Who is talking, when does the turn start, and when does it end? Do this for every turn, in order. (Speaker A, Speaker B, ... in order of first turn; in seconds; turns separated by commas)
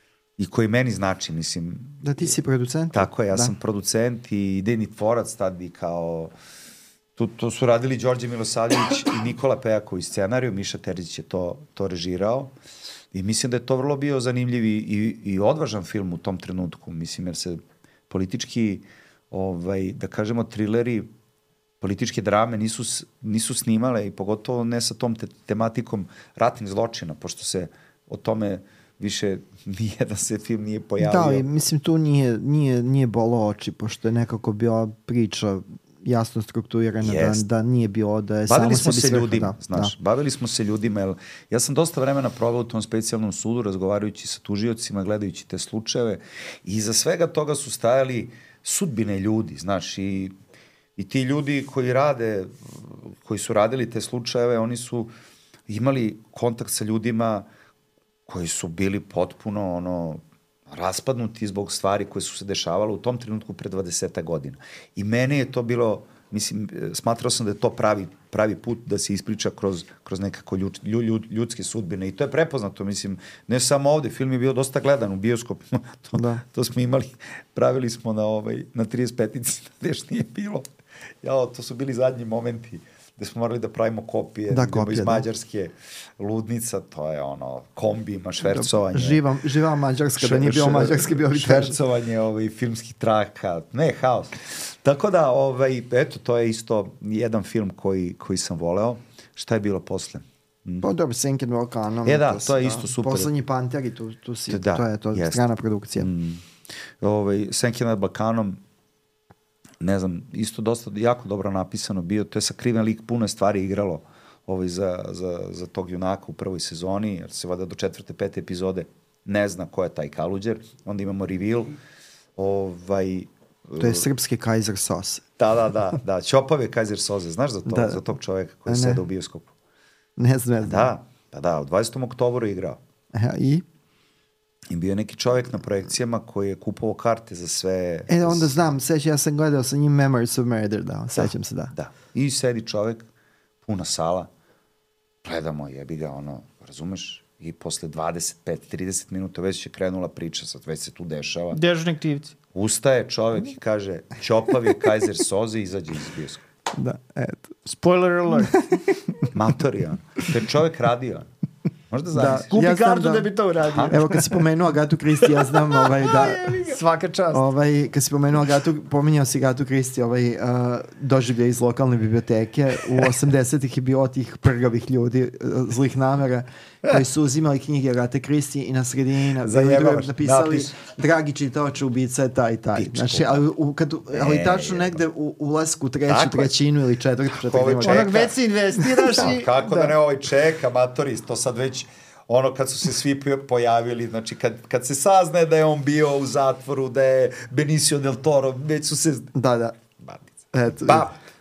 Speaker A: 0.4-2.3, Speaker B: 2.0-3.5, Speaker A: 2.9-6.3, Speaker A: 7.2-12.5, Speaker A: 13.1-21.1, Speaker A: 21.8-31.4, Speaker B: 31.0-39.9, Speaker A: 37.0-37.4, Speaker A: 38.5-50.3, Speaker A: 51.0-55.1, Speaker A: 55.7-57.5, Speaker A: 58.3-80.7, Speaker B: 76.1-76.4, Speaker A: 81.2-89.2, Speaker B: 84.5-85.2, Speaker B: 88.4-91.8, Speaker A: 90.2-100.9, Speaker B: 100.8-106.1, Speaker A: 102.0-103.3, Speaker A: 104.5-105.4, Speaker A: 106.0-106.4, Speaker A: 107.0-108.6, Speaker A: 109.8-121.8, Speaker A: 122.4-124.0, Speaker B: 123.8-125.2, Speaker A: 125.4-129.5, Speaker B: 127.7-128.0, Speaker B: 128.7-129.0, Speaker B: 130.2-130.9, Speaker A: 130.6-132.8, Speaker B: 133.1-133.6, Speaker A: 134.7-138.6, Speaker B: 138.1-141.7, Speaker A: 141.2-143.1, Speaker A: 143.6-144.3, Speaker A: 145.2-151.6, Speaker C: 151.5-152.3, Speaker A: 152.5-156.4, Speaker B: 156.7-157.6, Speaker C: 157.7-158.7, Speaker B: 158.4-159.3, Speaker A: 159.3-161.3, Speaker A: 161.9-162.5, Speaker B: 162.1-163.3, Speaker C: 162.5-164.4, Speaker A: 163.6-164.0, Speaker B: 163.9-166.6, Speaker C: 165.8-167.4, Speaker B: 167.3-188.2, Speaker A: 179.4-180.7, Speaker A: 182.8-183.4, Speaker A: 184.1-185.0, Speaker A: 186.1-186.5, Speaker A: 187.3-188.4, Speaker C: 187.8-189.5, Speaker B: 188.7-189.9, Speaker A: 189.0-199.3, Speaker B: 199.3-199.7, Speaker A: 200.0-200.3, Speaker B: 200.5-201.1, Speaker A: 200.8-201.1